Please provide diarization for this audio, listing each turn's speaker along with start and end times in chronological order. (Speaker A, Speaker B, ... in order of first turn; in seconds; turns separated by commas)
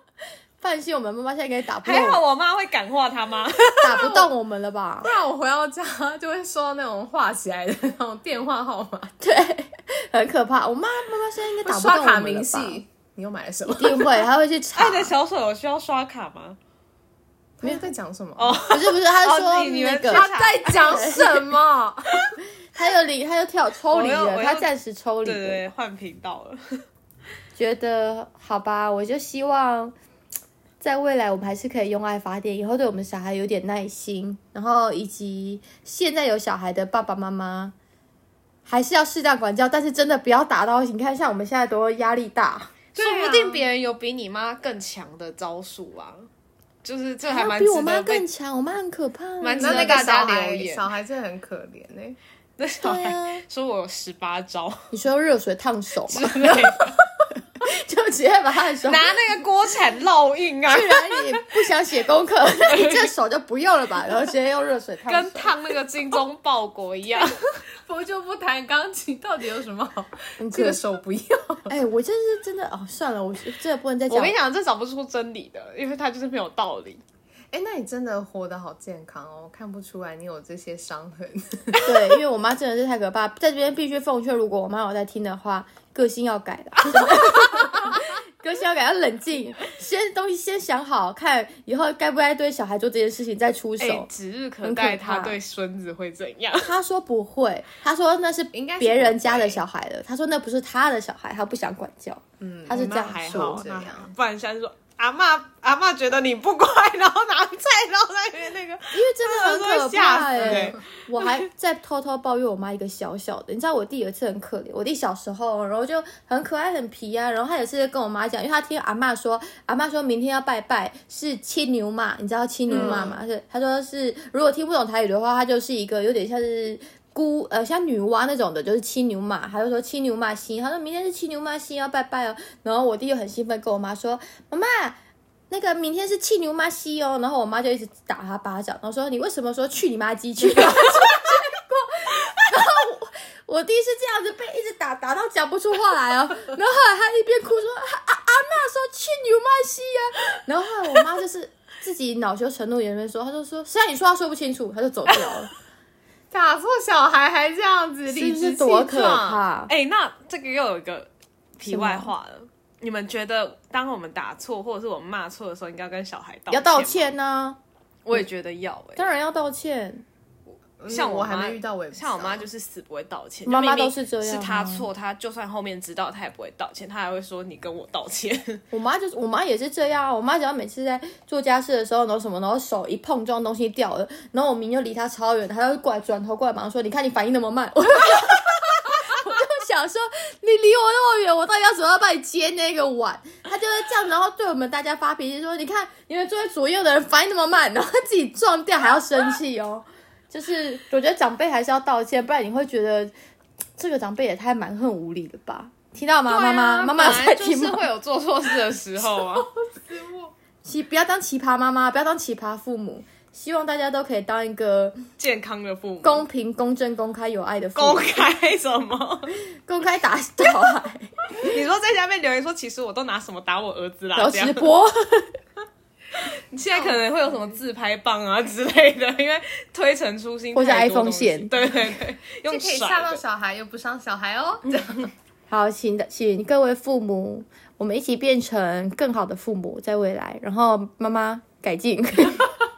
Speaker A: 0.6-2.2, Speaker B: 1.9-4.3, Speaker A: 3.8-5.1, Speaker C: 5.0-9.1, Speaker A: 9.2-12.8, Speaker C: 11.7-14.2, Speaker A: 13.7-15.1, Speaker B: 14.8-16.6, Speaker C: 17.6-18.6, Speaker B: 18.4-21.4, Speaker A: 18.7-21.3, Speaker C: 20.1-22.3, Speaker A: 22.7-25.6, Speaker B: 23.9-24.7, Speaker B: 25.2-26.9, Speaker A: 27.6-29.9, Speaker A: 30.8-37.7, Speaker A: 38.7-43.6, Speaker B: 43.0-46.3, Speaker B: 46.8-48.2, Speaker A: 47.2-50.1, Speaker B: 49.4-50.9, Speaker C: 49.6-52.2, Speaker B: 52.6-54.9, Speaker A: 52.8-53.4, Speaker A: 54.9-56.8, Speaker B: 56.1-57.0, Speaker A: 57.6-59.1, Speaker B: 58.9-61.6, Speaker A: 60.7-65.5, Speaker B: 62.6-63.1, Speaker B: 65.1-67.5, Speaker C: 67.8-71.7, Speaker A: 70.4-70.8, Speaker A: 71.7-74.3, Speaker B: 74.1-77.0, Speaker C: 77.5-81.8, Speaker A: 81.8-94.1, Speaker B: 86.9-87.7, Speaker B: 93.8-96.8, Speaker A: 94.6-95.4, Speaker A: 96.6-103.6, Speaker C: 98.5-99.6, Speaker C: 102.4-104.1, Speaker B: 102.7-111.5, Speaker A: 108.9-135.0, Speaker C: 110.4-110.8, Speaker C: 122.7-123.2, Speaker A: 135.5-155.5, Speaker C: 156.3-159.4, Speaker A: 158.1-159.7, Speaker B: 159.7-167.1, Speaker A: 161.6-162.1, Speaker A: 166.5-167.6, Speaker B: 168.1-169.0, Speaker A: 169.0-170.0, Speaker C: 170.8-172.5, Speaker B: 170.9-178.6, Speaker A: 173.5-174.9, Speaker A: 178.7-203.1, Speaker A: 203.8-207.9, Speaker B: 206.3-209.5, Speaker C: 209.2-210.3, Speaker A: 210.7-215.0, Speaker B: 215.2-216.3, Speaker A: 216.0-218.2, Speaker B: 217.8-219.3, Speaker A: 219.7-221.6, Speaker B: 221.4-224.7, Speaker A: 224.2-225.4, Speaker B: 226.2-233.2, Speaker C: 226.7-227.6, Speaker A: 230.5-231.5, Speaker C: 232.5-235.1, Speaker A: 235.5-242.5